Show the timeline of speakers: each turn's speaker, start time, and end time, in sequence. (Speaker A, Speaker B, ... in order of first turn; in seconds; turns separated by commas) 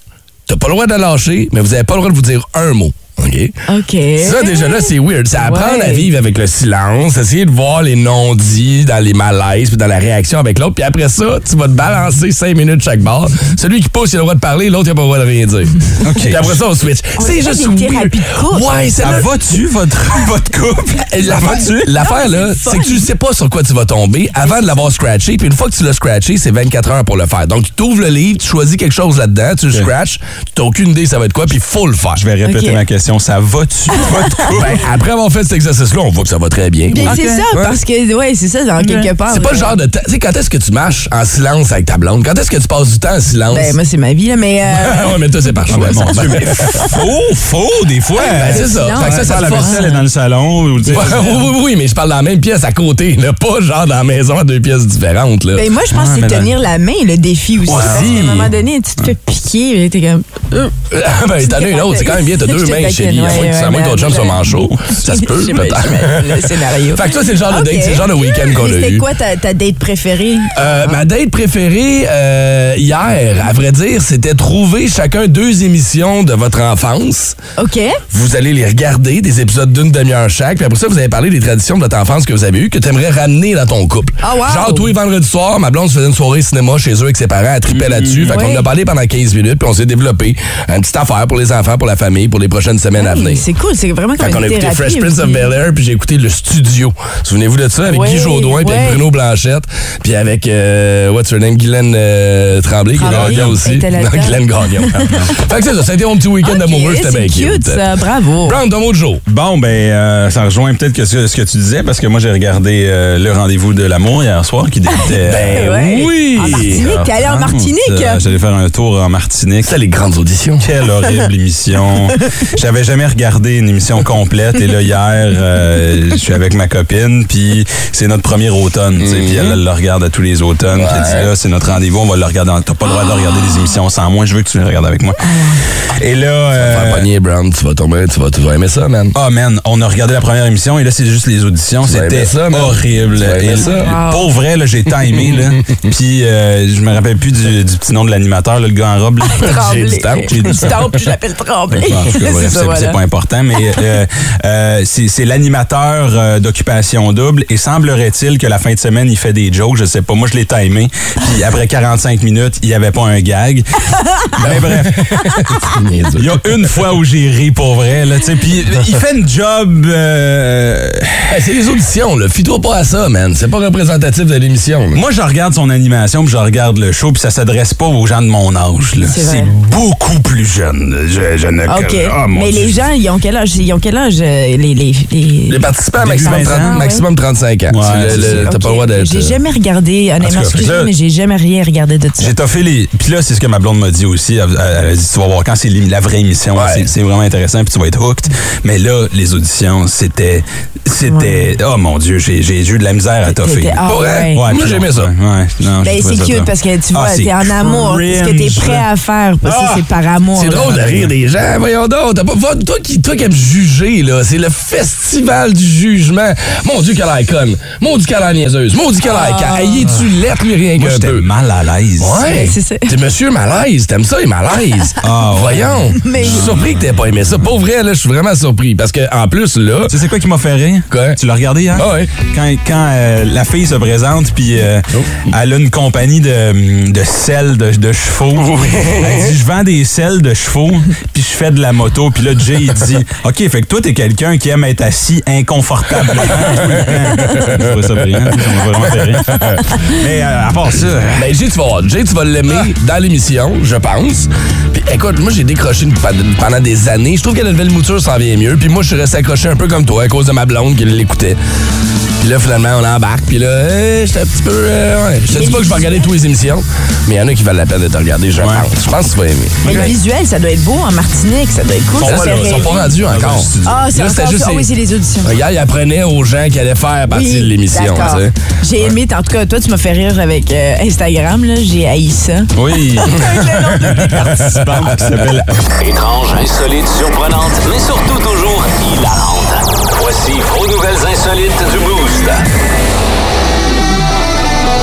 Speaker A: 0.5-3.5, Speaker B: 3.7-6.1, Speaker A: 4.2-19.3, Speaker C: 16.0-16.6, Speaker B: 17.2-18.7, Speaker C: 19.0-22.0, Speaker A: 21.1-32.2, Speaker B: 21.9-23.1, Speaker B: 24.4-24.7, Speaker C: 32.1-34.8, Speaker B: 32.5-32.8, Speaker B: 34.0-34.5, Speaker A: 34.5-37.8, Speaker B: 36.9-39.8, Speaker C: 37.0-37.5, Speaker C: 38.8-39.1, Speaker A: 39.3-43.8, Speaker B: 43.5-45.2, Speaker A: 44.8-46.9, Speaker C: 45.7-51.5, Speaker B: 48.2-50.0, Speaker A: 48.3-49.9, Speaker B: 50.8-51.4, Speaker A: 50.9-55.6, Speaker B: 55.5-60.7, Speaker C: 55.9-56.5, Speaker A: 57.7-58.5, Speaker C: 57.7-58.5, Speaker A: 60.9-69.0, Speaker B: 61.4-71.0, Speaker A: 70.5-77.3, Speaker B: 77.6-78.0, Speaker A: 78.1-93.4, Speaker B: 84.2-84.9, Speaker C: 87.7-88.4, Speaker B: 88.3-88.7, Speaker B: 93.0-95.5, Speaker A: 94.2-107.8, Speaker B: 97.9-99.0, Speaker B: 103.0-104.4, Speaker C: 103.0-103.6, Speaker C: 105.0-105.3, Speaker B: 106.4-108.6, Speaker A: 108.5-109.2, Speaker C: 109.3-115.7, Speaker A: 115.2-116.8, Speaker B: 115.5-118.2, Speaker C: 116.5-119.8, Speaker A: 119.7-120.7, Speaker C: 120.6-135.2, Speaker A: 129.0-129.6, Speaker A: 130.7-131.3, Speaker B: 135.2-135.6, Speaker C: 135.9-137.1, Speaker A: 136.6-139.2, Speaker C: 139.1-149.4, Speaker A: 141.9-143.9, Speaker B: 143.5-144.3, Speaker A: 145.2-145.5, Speaker B: 149.3-153.0, Speaker A: 149.4-150.9, Speaker C: 150.3-150.8, Speaker C: 151.8-163.7, Speaker C: 164.3-165.1, Speaker A: 164.4-166.4, Speaker C: 166.2-171.4, Speaker A: 171.3-175.0, Speaker C: 174.9-182.8, Speaker B: 179.1-179.5, Speaker B: 181.7-187.0, Speaker A: 185.5-189.4, Speaker C: 186.0-186.8, Speaker C: 187.7-188.5, Speaker B: 188.1-192.3, Speaker C: 190.2-190.9, Speaker C: 192.2-203.8, Speaker A: 196.6-196.9, Speaker B: 201.1-201.5, Speaker B: 203.3-204.4, Speaker A: 203.9-205.1, Speaker C: 204.3-208.9, Speaker B: 205.8-211.1, Speaker C: 209.5-209.8, Speaker A: 210.4-221.3, Speaker B: 219.0-219.9, Speaker C: 220.8-222.2, Speaker A: 222.0-230.0, Speaker B: 222.2-222.9, Speaker C: 225.0-227.0, Speaker B: 226.0-226.6, Speaker C: 229.9-251.3, Speaker A: 230.9-231.2, Speaker A: 231.8-232.1, Speaker A: 238.5-239.3, Speaker A: 246.3-246.5, Speaker A: 247.2-247.7, Speaker A: 249.3-249.7, Speaker A: 251.2-261.4, Speaker A: 262.2-269.9, Speaker B: 265.3-266.1, Speaker C: 268.4-268.7, Speaker C: 269.6-269.9, Speaker B: 269.6-272.9, Speaker C: 272.0-273.9, Speaker A: 272.0-274.7, Speaker B: 273.6-275.3, Speaker A: 275.2-278.9, Speaker B: 277.1-284.2, Speaker C: 282.6-285.5, Speaker A: 283.8-285.0, Speaker D: 285.8-292.4